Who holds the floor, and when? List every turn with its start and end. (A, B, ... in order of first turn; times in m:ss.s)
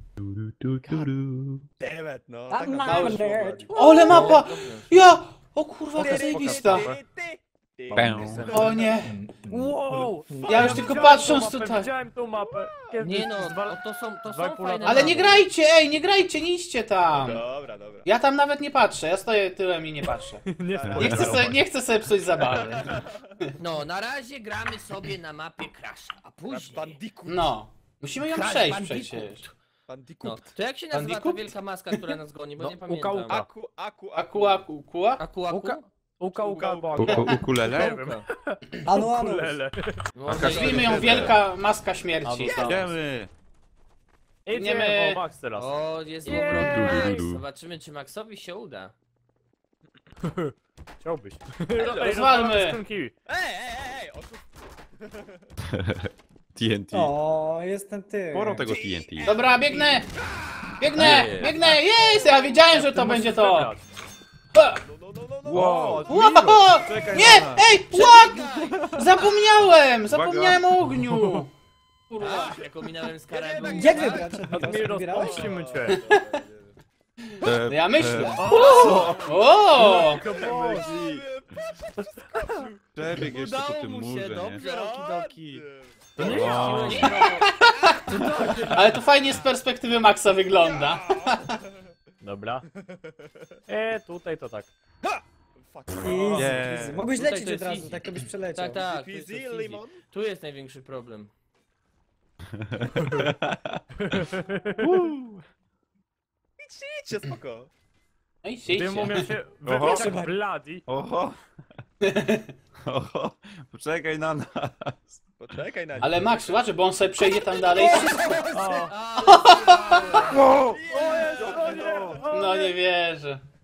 0:00.2-0:01.6 A
0:01.8-0:03.8 B
0:02.5-0:04.4 C
0:02.8-0:06.9 D
0:04.0-0:04.9 E
0:06.0-0:06.4 C
0:06.0-0:08.9 B
0:06.0-0:07.0 F
0:07.9-0:08.7 A
0:08.5-0:09.2 D
0:09.1-0:09.8 C
0:09.5-0:15.4 F
0:10.3-0:10.8 C
0:10.4-0:11.9 D
0:10.9-0:11.4 B
0:12.4-0:12.7 B
0:13.0-0:15.4 E
0:14.8-0:17.4 D
0:17.0-0:18.1 B
0:18.0-0:23.0 D
0:20.5-0:21.6 F
0:20.7-0:21.6 B
0:22.4-0:23.4 B
0:23.6-0:27.0 E
0:26.5-0:27.5 B
0:27.3-0:29.5 D
0:28.3-0:29.5 E
0:29.9-0:30.6 B
0:30.2-0:33.5 E
0:30.9-0:32.0 D
0:32.6-0:33.4 F
0:33.3-0:34.6 B
0:34.1-0:35.2 D
0:35.2-0:35.9 E
0:35.5-0:40.0 F
0:36.4-0:37.2 B
0:37.0-0:38.0 A
0:37.6-0:38.2 E
0:38.8-0:39.6 C
0:40.1-0:41.3 E
0:40.2-0:41.4 A
0:40.4-0:42.7 D
0:42.2-0:42.9 F
0:42.5-0:43.3 A
0:44.5-0:47.2 F
0:44.5-0:45.2 D
0:45.6-0:48.9 E
0:46.3-0:47.4 A
0:50.2-0:53.1 F
0:51.8-0:52.4 B
0:52.0-0:52.8 D
0:53.2-0:54.4 B
0:55.0-0:55.5 B
0:55.7-0:57.1 A
0:56.9-0:58.7 C
0:58.3-0:59.3 A
0:58.6-1:02.6 B
0:59.2-1:00.1 D
1:00.8-1:03.7 D
1:01.0-1:01.5 A
1:02.7-1:03.8 F
1:04.5-1:04.8 D
1:04.8-1:07.5 B
1:05.4-1:07.7 A
1:06.1-1:11.5 D
1:07.9-1:09.2 E
1:10.1-1:10.7 A
1:11.1-1:11.4 F
1:12.1-1:12.6 D
1:12.2-1:14.4 E
1:13.3-1:16.8 B
1:13.6-1:15.6 C
1:14.5-1:16.0 F
1:16.0-1:16.2 D
1:17.4-1:20.3 D
1:17.4-1:21.2 A
1:18.2-1:20.9 F
1:18.9-1:23.2 B
1:23.0-1:24.6 A
1:23.2-1:25.6 E
1:24.6-1:27.3 B
1:26.2-1:27.3 F
1:26.2-1:27.5 E
1:26.2-1:27.2 A
1:26.9-1:31.5 D
1:28.1-1:28.8 E
1:28.1-1:28.6 B
1:30.5-1:31.9 B
1:32.2-1:32.7 F
1:32.8-1:33.6 B
1:33.7-1:34.7 F
1:35.0-1:36.8 B
1:36.0-1:38.8 C
1:36.3-1:37.0 A
1:37.1-1:38.0 E
1:38.5-1:41.3 E
1:38.8-1:40.0 B
1:42.5-1:44.2 A
1:44.0-1:44.8 F
1:44.8-1:45.4 A
1:46.6-1:47.7 B
1:48.4-1:49.3 D
1:48.7-1:50.8 F
1:49.6-1:50.1 A
1:49.8-1:50.4 C
1:50.9-1:51.4 A
1:52.0-1:52.5 D
1:52.9-1:55.2 A
1:55.4-1:56.6 B
1:56.0-1:58.4 D
1:57.7-1:58.9 C
1:57.7-1:58.5 B
1:58.5-1:58.9 F
1:58.8-2:00.4 E
1:59.2-2:00.2 D
2:00.3-2:02.3 A
2:00.7-2:02.6 B
2:00.9-2:02.8 F
2:02.3-2:03.4 D